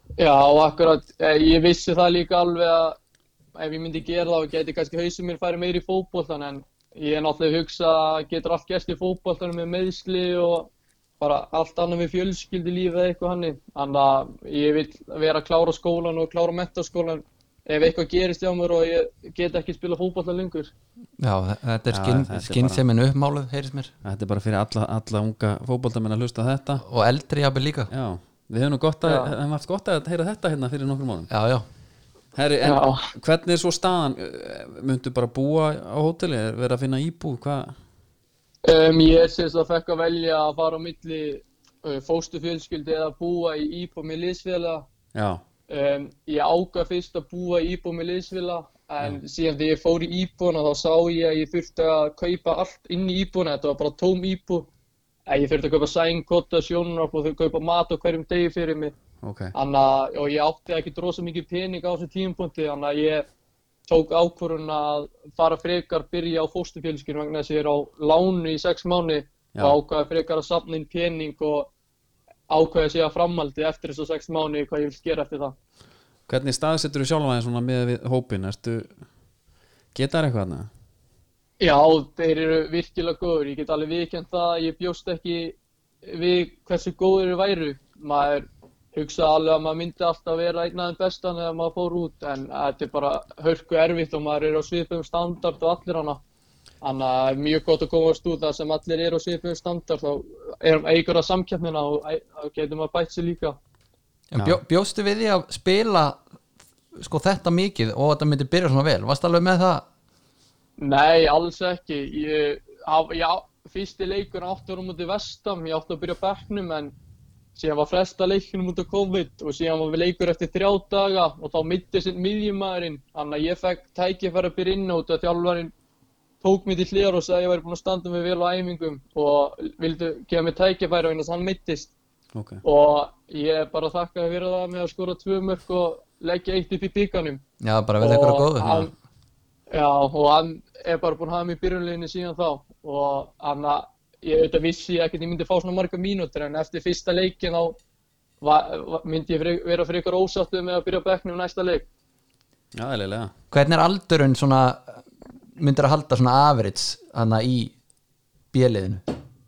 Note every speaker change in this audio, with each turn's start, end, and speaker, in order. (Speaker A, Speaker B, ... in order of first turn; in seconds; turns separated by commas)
Speaker A: 0.2-3.0, Speaker A: 3.5-20.7, Speaker B: 21.2-23.9, Speaker C: 21.9-22.8, Speaker C: 24.0-26.8, Speaker B: 26.8-27.9, Speaker C: 27.9-31.3, Speaker A: 29.0-29.3, Speaker B: 31.3-31.6, Speaker C: 32.3-37.7, Speaker A: 32.6-33.1, Speaker A: 38.6-44.9, Speaker C: 45.1-45.4, Speaker A: 45.7-54.7, Speaker A: 55.3-58.9, Speaker C: 59.2-59.5, Speaker A: 59.5-63.2, Speaker A: 63.9-71.7, Speaker A: 72.5-75.6, Speaker C: 76.3-79.0, Speaker C: 79.9-80.7, Speaker A: 81.6-96.2, Speaker A: 96.8-103.6, Speaker B: 104.3-106.2, Speaker B: 107.0-109.8, Speaker A: 110.8-116.9, Speaker A: 117.6-125.7, Speaker A: 126.4-131.9, Speaker C: 132.3-132.6, Speaker A: 132.6-137.4, Speaker B: 137.6-138.9, Speaker A: 138.0-138.9, Speaker A: 139.7-147.8, Speaker A: 148.4-151.9, Speaker C: 152.7-153.3, Speaker B: 153.5-157.8, Speaker B: 158.5-159.0